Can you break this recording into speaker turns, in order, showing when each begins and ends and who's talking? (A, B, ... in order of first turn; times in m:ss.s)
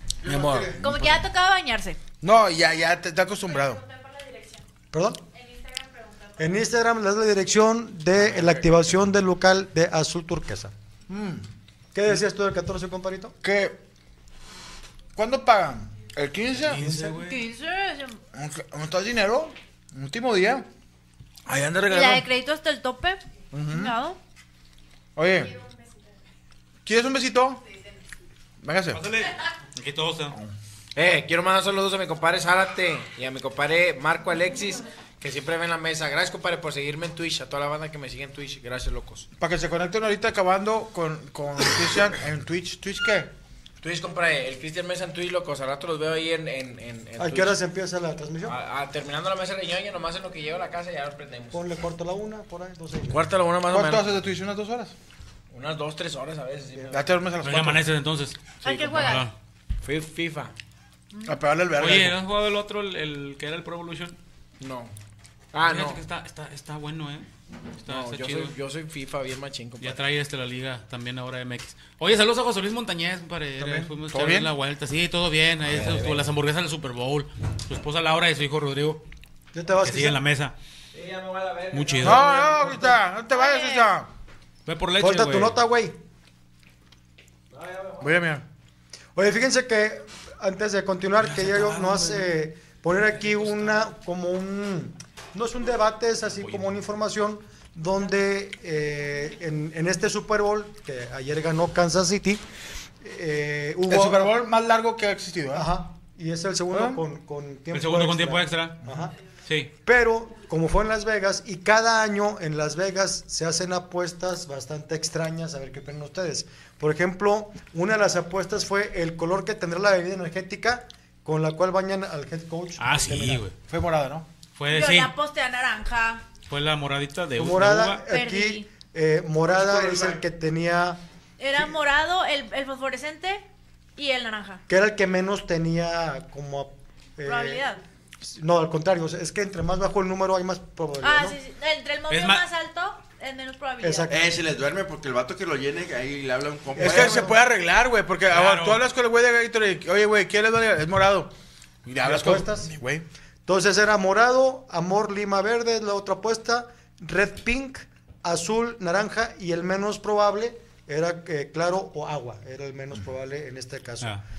0:00.2-0:00.8 A
0:00.2-0:00.6 B
0:00.8-0:02.0 C
0:02.2-0:03.8 B
0:03.7-0:04.6 C
0:04.9-0:05.2 D
0:05.4-0:06.4 C
0:06.4-0:10.7 D
0:11.1-0:11.4 B
0:11.9-0:13.3 D
0:13.4-0:13.8 B
0:15.2-0:16.8 B
0:16.6-0:17.4 E
0:17.1-0:18.2 C
0:18.3-0:20.6 B
0:21.4-0:22.2 B
0:21.9-0:24.2 C
0:23.5-0:23.9 B
0:25.2-0:25.6 B
0:26.8-0:27.6 B
0:28.6-0:29.0 B
0:28.9-0:30.4 E
0:31.0-0:39.3 A
0:39.4-0:43.3 B
0:43.8-0:47.6 A
0:47.2-0:48.6 D
0:48.4-0:51.7 A
0:51.5-0:53.2 D
0:53.1-0:54.1 A
0:53.7-0:54.9 B
0:55.5-0:57.1 A
0:56.9-0:57.8 B
0:57.4-0:59.3 E
0:58.6-0:59.2 C
0:59.8-1:00.5 A
1:01.2-1:02.2 B
1:01.8-1:04.2 E
1:04.6-1:04.9 A
1:05.5-1:06.0 A
1:05.6-1:07.3 E
1:07.8-1:08.6 E
1:07.8-1:10.0 A
1:09.8-1:19.0 E
1:13.6-1:14.5 B
1:15.7-1:16.3 A
1:19.5-1:20.2 D
1:19.8-1:20.5 E
1:20.9-1:23.0 A
1:21.7-1:22.3 E
1:22.0-1:24.1 B
1:23.3-1:23.9 C
1:24.6-1:25.6 E
1:25.0-1:26.0 D
1:27.5-1:28.1 A
1:28.0-1:28.4 B
1:29.1-1:42.4 D
1:31.2-1:32.3 E
1:36.4-1:36.7 E
1:43.0-1:44.3 D
1:43.9-1:45.7 B
1:45.5-1:49.1 D
1:46.7-1:47.0 B
1:47.7-1:48.8 E
1:49.4-1:49.7 E
1:49.8-2:03.4 D
2:02.8-2:03.6 E
2:03.7-2:04.3 B
2:04.6-2:05.1 E
2:04.7-2:06.2 C
2:06.5-2:08.0 E
2:07.4-2:11.0 D
2:08.0-2:08.7 C
2:09.6-2:10.2 F
2:11.4-2:13.4 C
2:14.0-2:14.6 C
2:14.7-2:17.6 D
2:17.2-2:17.8 C
2:18.2-2:21.4 D
2:21.0-2:24.1 C
2:22.1-2:22.4 E
2:23.8-2:24.2 D
2:24.1-2:27.3 F
2:26.8-2:27.4 D
2:26.8-2:31.3 B
2:28.3-2:28.8 E
2:31.8-2:33.0 B
2:32.0-2:32.7 D
2:33.5-2:44.2 D